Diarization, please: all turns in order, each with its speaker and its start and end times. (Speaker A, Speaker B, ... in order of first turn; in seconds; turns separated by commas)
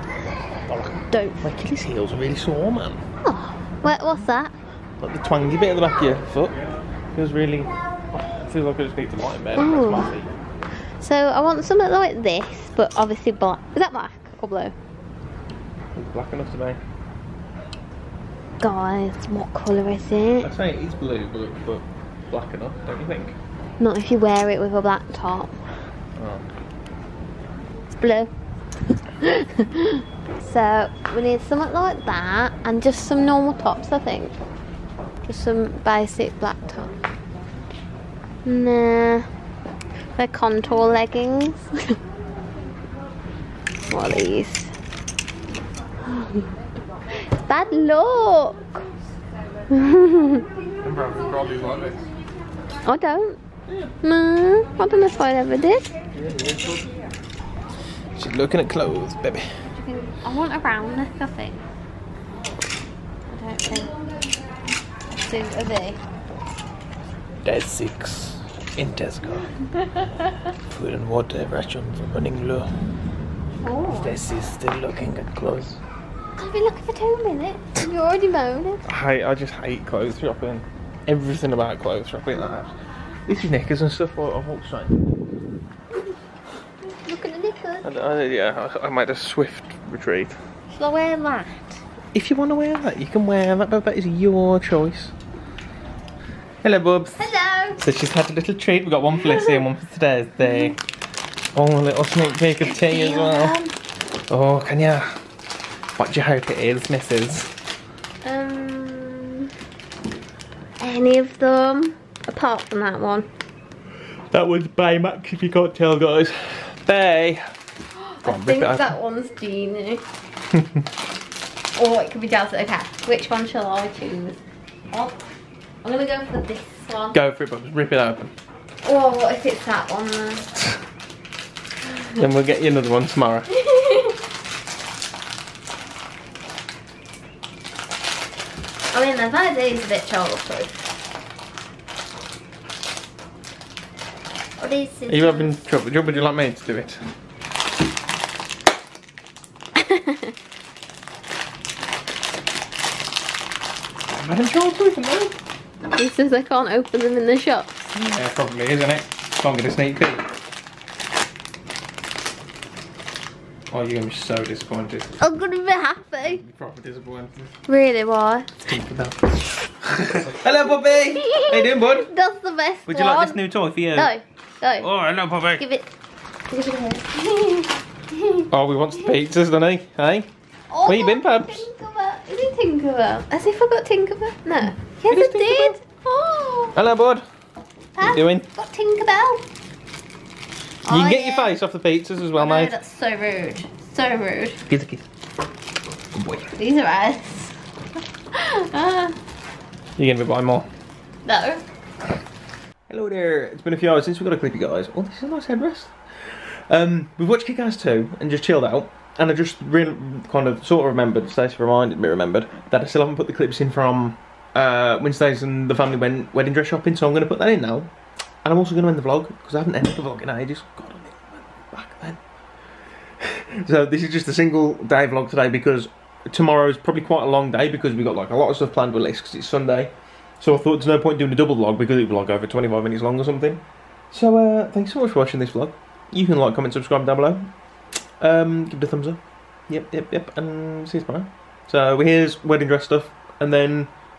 Speaker A: 0.7-3.0, Speaker B: 1.1-1.4, Speaker B: 3.2-4.5, Speaker A: 3.8-4.3, Speaker A: 5.0-6.6, Speaker A: 7.2-10.3, Speaker B: 9.6-10.1, Speaker B: 11.0-14.7, Speaker A: 15.9-16.8, Speaker B: 18.6-20.5, Speaker A: 20.4-23.4, Speaker B: 23.8-25.6, Speaker A: 26.2-26.4, Speaker B: 27.9-28.3, Speaker B: 29.2-34.3, Speaker B: 35.3-37.0, Speaker B: 38.5-39.3, Speaker B: 40.2-42.0, Speaker B: 43.9-44.7, Speaker B: 46.1-46.5, Speaker B: 47.4-48.9, Speaker B: 49.7-50.5, Speaker A: 50.8-52.1, Speaker B: 52.8-53.4, Speaker B: 54.0-55.9, Speaker A: 56.2-56.8, Speaker A: 58.1-59.5, Speaker B: 59.7-61.6, Speaker B: 63.3-64.0, Speaker B: 65.2-66.0, Speaker A: 67.4-69.6, Speaker A: 70.7-72.7, Speaker B: 73.6-74.2, Speaker A: 73.9-75.8, Speaker B: 76.4-78.8, Speaker A: 78.9-82.7, Speaker A: 83.3-85.0, Speaker B: 87.0-87.9, Speaker A: 87.8-90.4, Speaker B: 90.7-91.8, Speaker A: 92.1-95.1, Speaker A: 96.6-100.8, Speaker B: 97.2-97.8, Speaker B: 99.2-99.6, Speaker B: 100.4-100.7, Speaker A: 101.5-103.6, Speaker B: 102.6-103.8, Speaker A: 104.3-105.2, Speaker A: 106.0-107.5, Speaker B: 108.2-109.5, Speaker B: 110.8-113.3, Speaker A: 114.3-117.4, Speaker B: 118.0-120.0, Speaker A: 118.2-119.0, Speaker A: 120.5-120.8, Speaker B: 121.8-125.2, Speaker B: 125.8-127.2, Speaker A: 127.1-128.3, Speaker B: 128.8-130.5, Speaker A: 132.1-133.5, Speaker B: 133.5-134.2, Speaker B: 138.9-140.7, Speaker B: 144.6-145.6, Speaker A: 145.1-147.0, Speaker B: 149.8-150.3, Speaker A: 154.1-155.4, Speaker B: 155.9-157.9, Speaker A: 157.9-160.2, Speaker A: 163.7-165.1, Speaker B: 165.2-166.4, Speaker A: 166.2-167.5, Speaker B: 167.7-168.5, Speaker A: 168.7-172.1, Speaker B: 170.9-174.9, Speaker A: 172.9-174.1, Speaker A: 174.8-175.6, Speaker B: 175.6-175.9, Speaker B: 176.5-178.5, Speaker A: 178.5-180.3, Speaker B: 180.7-186.8, Speaker A: 180.9-181.7, Speaker A: 185.1-185.8, Speaker A: 186.8-187.2, Speaker B: 188.0-189.4, Speaker A: 188.0-188.5, Speaker B: 190.8-191.6, Speaker A: 190.9-192.7, Speaker B: 192.4-194.6, Speaker A: 194.7-195.1, Speaker A: 196.2-196.5, Speaker B: 196.5-197.6, Speaker B: 198.3-199.2, Speaker A: 200.0-200.7, Speaker B: 201.2-201.6, Speaker A: 202.9-217.9, Speaker A: 218.4-222.2, Speaker A: 223.2-233.6, Speaker A: 234.1-237.5, Speaker A: 238.2-243.9